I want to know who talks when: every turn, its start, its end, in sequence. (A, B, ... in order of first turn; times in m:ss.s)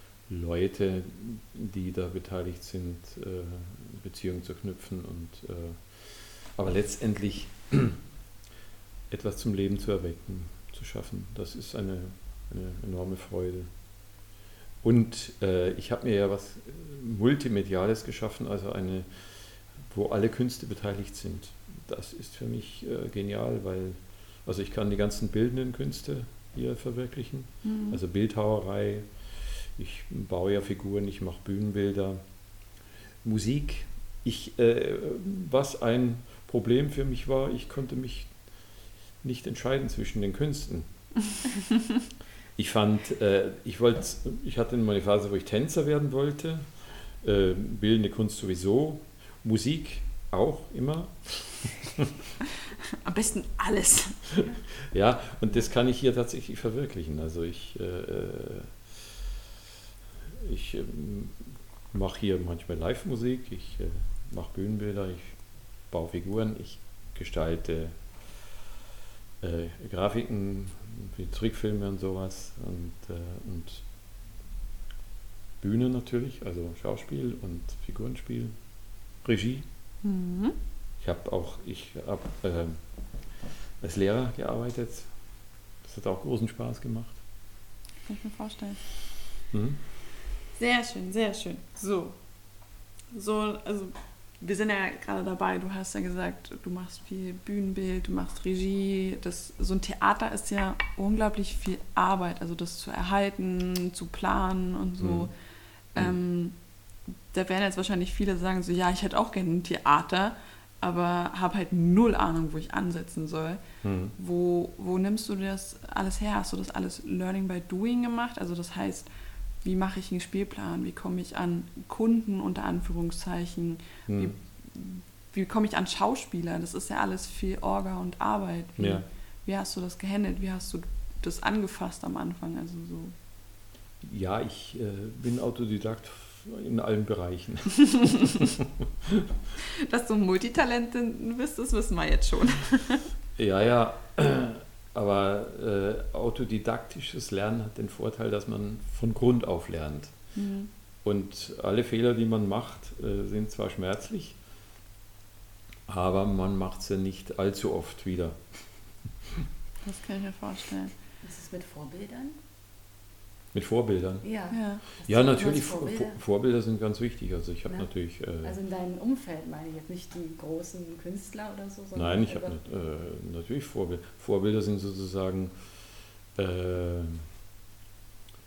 0:00.3-0:08.0 A
0:09.1-0:13.7 A
0:14.8-0:19.1 A
0:19.8-0:32.2 A
0:27.6-0:28.0 B
0:33.2-0:38.3 A
0:39.2-0:40.9 A
0:42.6-0:46.7 A
0:47.2-0:52.1 A
0:52.8-0:54.2 B
0:54.4-0:59.0 A
1:00.4-1:05.4 A
1:05.9-1:08.1 A
1:09.4-1:13.8 A
1:15.6-1:18.6 A
1:19.2-1:19.7 A
1:20.0-1:20.6 B
1:21.0-1:22.8 A
1:23.8-1:25.1 A
1:25.8-1:27.2 A
1:28.0-1:28.8 B
1:29.5-1:29.8 A
1:30.6-1:32.2 B
1:33.1-1:45.3 B
1:45.0-1:45.3 A
1:45.9-1:46.6 B
1:47.1-1:53.6 B
1:53.8-1:54.1 A
1:54.2-1:59.1 B
1:59.6-2:13.1 B
2:04.1-2:04.3 A
2:08.8-2:09.0 A
2:14.0-2:19.3 A
2:19.6-2:23.1 B
2:23.4-2:30.1 A
2:30.4-2:30.7 B
2:31.0-2:34.4 A
2:35.9-2:38.4 A
2:39.8-2:40.9 B
2:41.2-2:42.4 C
2:43.5-2:44.2 A
2:44.2-2:46.2 C
2:44.5-2:44.8 B
2:45.1-2:48.6 A
2:48.4-2:52.6 C
2:52.0-2:55.5 A
2:56.4-2:57.3 A